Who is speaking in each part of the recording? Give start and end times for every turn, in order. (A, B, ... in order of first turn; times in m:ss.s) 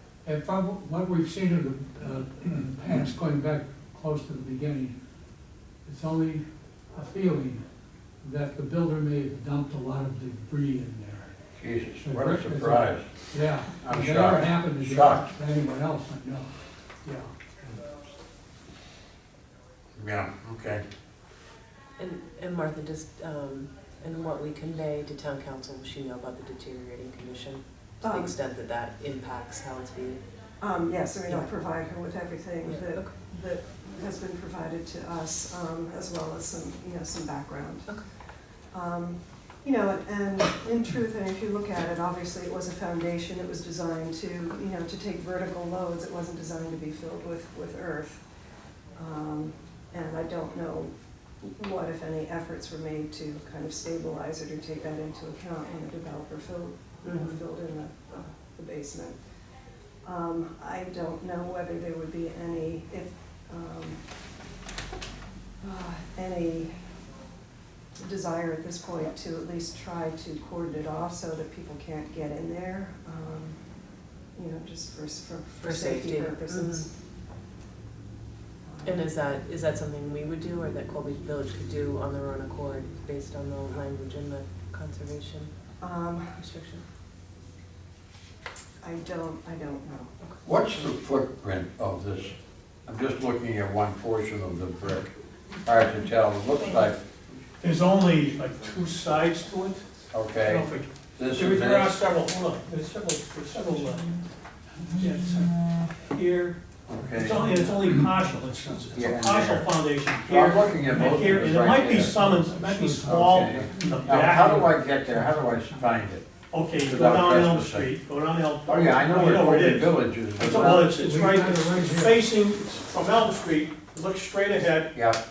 0:00.2-0:05.0 A
0:05.8-0:07.6 A
0:08.2-0:11.3 A
0:11.6-0:13.1 B
0:12.0-0:16.5 A
0:13.8-0:15.3 B
0:17.0-0:17.3 A
0:20.0-0:20.8 B
0:22.0-0:30.2 C
0:28.0-0:28.3 D
0:30.6-0:37.9 D
0:32.7-0:33.1 C
0:38.7-0:48.2 D
0:49.0-0:59.2 D
0:57.0-0:57.4 C
1:00.0-1:04.0 D
1:05.6-1:06.7 D
1:08.0-1:13.6 D
1:14.4-1:16.9 D
1:15.6-1:16.9 C
1:18.6-1:19.1 D
1:18.8-1:25.5 C
1:25.8-1:26.4 D
1:26.4-1:26.8 C
1:28.8-1:30.1 D
1:30.4-1:32.4 B
1:32.9-1:37.0 B
1:37.6-1:44.2 E
1:40.1-1:42.0 B
1:44.8-1:45.1 A
1:45.0-1:46.6 E
1:46.9-1:47.5 B
1:47.1-1:54.7 E
1:48.9-1:49.7 B
1:50.2-1:52.2 B
1:50.9-1:51.4 A
1:52.0-1:54.6 A
1:53.0-1:56.3 B
1:56.5-2:05.0 E
1:56.8-1:57.9 B
1:58.6-2:00.9 B
2:00.6-2:02.2 A
2:04.9-2:05.2 B